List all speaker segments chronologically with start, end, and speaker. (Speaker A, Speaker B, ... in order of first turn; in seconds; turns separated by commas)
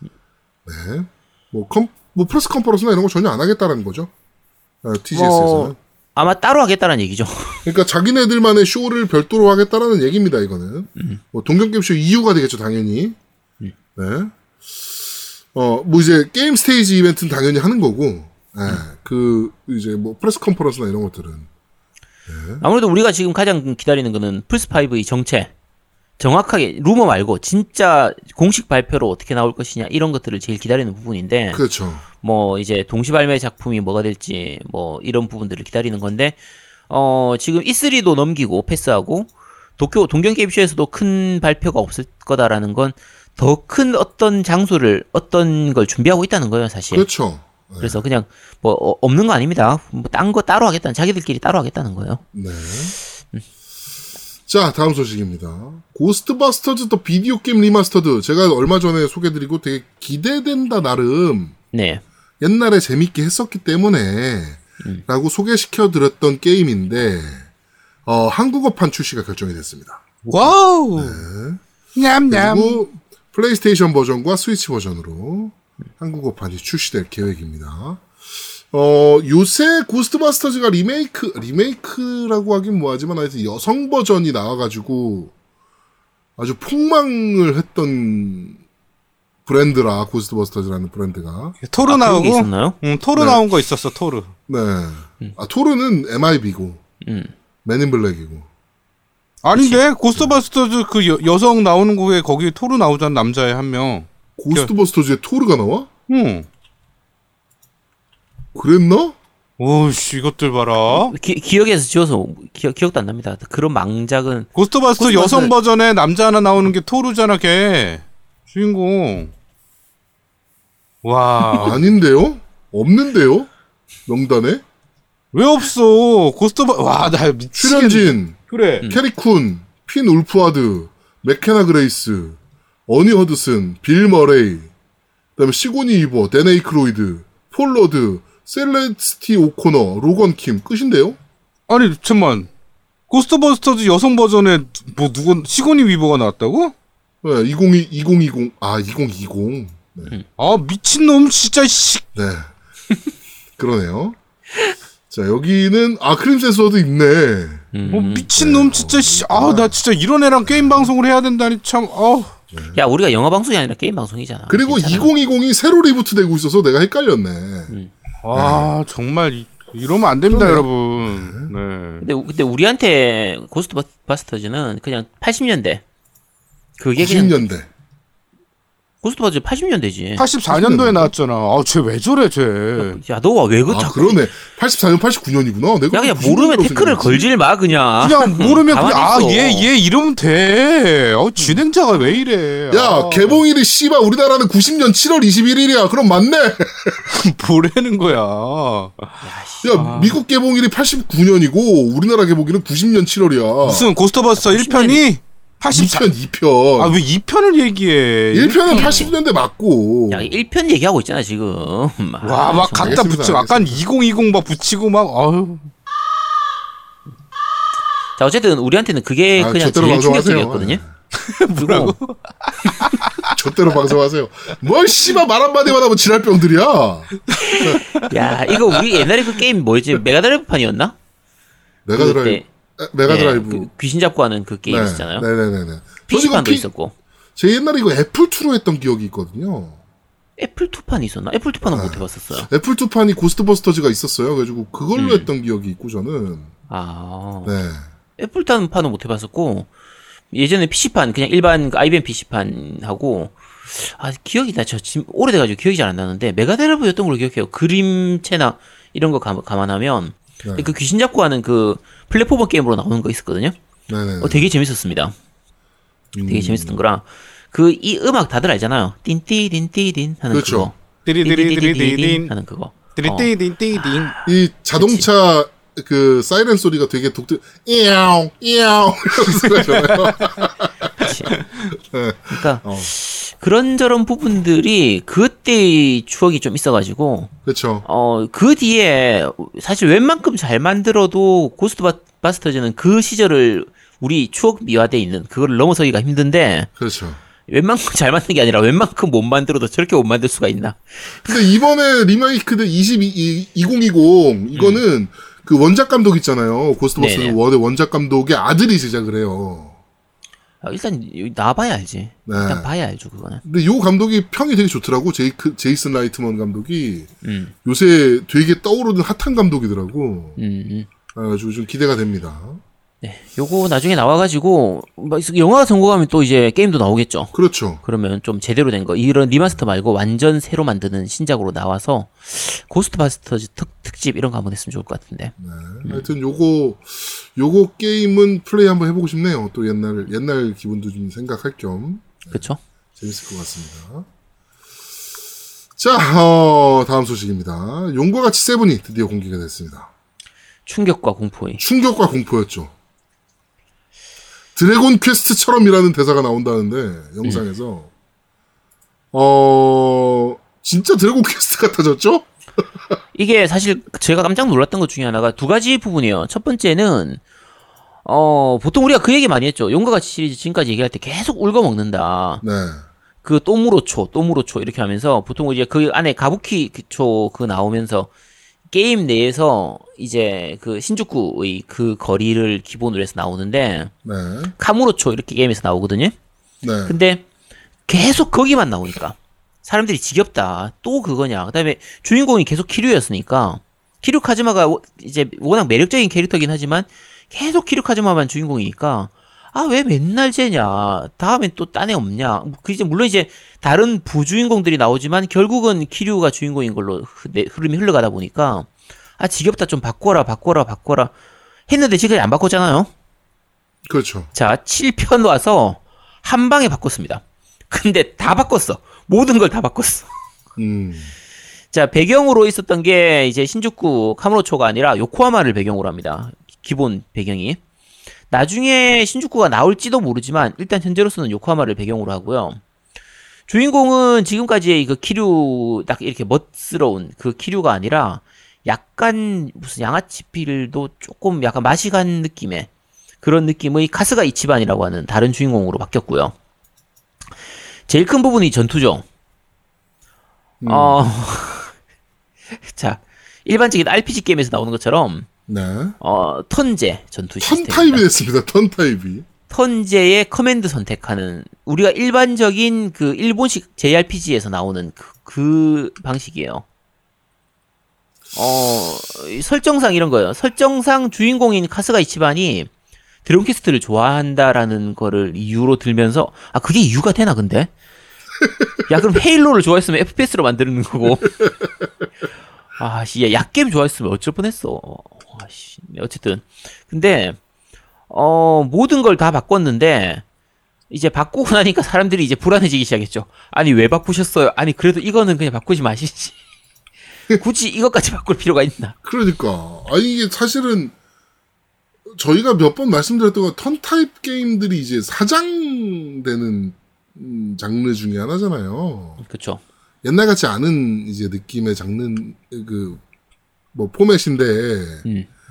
Speaker A: 0.7-4.1, Speaker A: 4.8-5.8, Speaker B: 5.1-7.7, Speaker A: 7.6-13.2, Speaker B: 10.9-11.2, Speaker A: 13.9-21.5, Speaker A: 22.3-22.6, Speaker B: 22.6-25.5, Speaker B: 26.2-31.6, Speaker A: 31.5-32.0, Speaker B: 32.2-36.4, Speaker B: 36.9-47.1, Speaker A: 46.9-48.0, Speaker B: 47.8-52.2, Speaker A: 52.3-53.0, Speaker A: 54.5-61.6, Speaker B: 61.7-62.0, Speaker A: 62.4-67.5, Speaker A: 68.0-71.6, Speaker C: 70.2-71.2, Speaker C: 71.9-72.8, Speaker A: 72.3-78.0, Speaker A: 78.7-85.3, Speaker A: 86.4-88.6, Speaker A: 89.5-91.6, Speaker C: 91.6-94.3, Speaker B: 91.8-92.8, Speaker A: 93.1-93.4, Speaker A: 94.5-96.8, Speaker B: 97.0-97.3, Speaker A: 97.6-98.5, Speaker C: 99.4-104.7, Speaker B: 99.5-99.8, Speaker A: 104.4-105.9, Speaker C: 106.1-106.5, Speaker A: 108.5-109.2, Speaker C: 109.6-111.1, Speaker B: 110.9-115.5, Speaker C: 114.5-119.3, Speaker C: 121.0-121.8, Speaker A: 121.5-123.5, Speaker A: 124.0-124.6, Speaker C: 125.3-128.8, Speaker A: 127.5-134.7, Speaker A: 135.4-141.2, Speaker C: 141.7-142.5, Speaker C: 143.1-146.7, Speaker A: 147.2-150.1, Speaker C: 150.4-152.0, Speaker A: 152.1-152.5, Speaker A: 153.6-154.2, Speaker A: 155.1-157.7, Speaker B: 157.7-158.3, Speaker C: 157.9-162.3, Speaker A: 158.3-159.8, Speaker A: 160.4-160.9, Speaker A: 162.5-162.8, Speaker B: 162.7-165.1, Speaker A: 164.5-167.7, Speaker C: 168.2-172.0, Speaker A: 168.3-168.7, Speaker A: 170.3-171.5, Speaker B: 172.0-175.8, Speaker B: 176.8-177.4, Speaker A: 177.0-177.7, Speaker B: 179.0-180.2, Speaker C: 180.2-183.0, Speaker A: 180.5-181.1, Speaker B: 182.8-184.2, Speaker A: 183.7-187.3, Speaker B: 185.9-189.7, Speaker C: 188.0-193.4, Speaker A: 192.7-197.1, Speaker C: 197.1-199.2, Speaker B: 199.2-199.7, Speaker A: 199.6-203.9, Speaker C: 199.7-200.2, Speaker C: 203.6-206.1, Speaker B: 204.3-205.0, Speaker A: 205.7-207.0, Speaker C: 206.8-209.1, Speaker A: 208.3-210.3, Speaker B: 208.7-209.1, Speaker B: 210.1-213.0, Speaker C: 212.2-215.7, Speaker A: 212.7-213.8, Speaker B: 218.2-220.8, Speaker A: 219.4-220.9, Speaker C: 221.2-223.3, Speaker B: 221.3-221.9, Speaker A: 223.3-227.8, Speaker B: 227.4-231.0, Speaker A: 231.8-233.7, Speaker B: 231.9-232.4, Speaker B: 233.1-235.3, Speaker A: 234.7-236.7, Speaker B: 236.1-236.9, Speaker A: 237.3-239.8, Speaker B: 240.4-242.5, Speaker A: 241.7-246.5, Speaker B: 244.9-245.3, Speaker B: 246.7-247.6, Speaker A: 247.4-247.8, Speaker B: 248.2-249.7, Speaker B: 250.3-263.6, Speaker A: 260.4-260.7, Speaker A: 263.9-264.5, Speaker B: 264.2-265.1, Speaker A: 266.1-266.8, Speaker B: 266.2-275.0, Speaker A: 270.3-270.7, Speaker C: 271.1-272.3, Speaker C: 272.9-274.1, Speaker A: 274.2-282.9, Speaker C: 279.5-280.1, Speaker B: 281.0-281.3, Speaker B: 282.3-287.3, Speaker A: 287.4-287.8, Speaker B: 287.8-296.7, Speaker A: 296.8-297.2, Speaker B: 297.5-301.4, Speaker A: 301.2-309.7, Speaker B: 304.5-304.8, Speaker B: 306.9-307.4, Speaker B: 310.6-313.4, Speaker A: 312.3-312.7, Speaker A: 313.4-317.1, Speaker B: 317.2-317.5, Speaker A: 317.6-320.4, Speaker B: 320.4-320.9, Speaker A: 321.1-322.6, Speaker B: 323.0-336.1, Speaker A: 327.3-327.8, Speaker A: 335.4-342.4, Speaker B: 342.3-342.6, Speaker A: 343.0-344.1, Speaker A: 345.8-349.9, Speaker B: 350.6-351.6, Speaker A: 351.6-352.7, Speaker A: 354.6-357.9, Speaker A: 359.1-362.9, Speaker B: 363.1-367.2, Speaker B: 368.0-372.4, Speaker A: 372.4-372.8, Speaker B: 373.2-378.1, Speaker B: 378.7-383.9, Speaker A: 384.0-384.5, Speaker B: 384.6-386.1, Speaker A: 386.6-387.0, Speaker B: 386.8-387.2, Speaker B: 387.9-411.1, Speaker B: 411.7-412.9, Speaker A: 413.9-414.3, Speaker B: 414.3-420.1, Speaker A: 420.6-421.1, Speaker B: 421.7-427.6, Speaker B: 428.3-432.6, Speaker B: 433.5-442.7, Speaker B: 443.2-446.3, Speaker B: 447.9-449.0, Speaker A: 450.6-451.0, Speaker B: 450.7-451.7, Speaker B: 452.6-455.3, Speaker A: 455.5-456.0, Speaker B: 456.0-458.0, Speaker A: 457.4-459.2, Speaker B: 459.5-466.6, Speaker B: 468.3-472.7, Speaker B: 473.2-477.7, Speaker B: 478.9-481.4, Speaker B: 482.8-487.4, Speaker B: 488.1-490.2, Speaker B: 490.9-496.3, Speaker B: 497.3-498.9, Speaker A: 499.0-500.9, Speaker A: 502.1-509.2, Speaker B: 509.2-509.6, Speaker A: 510.0-513.0, Speaker A: 513.7-515.0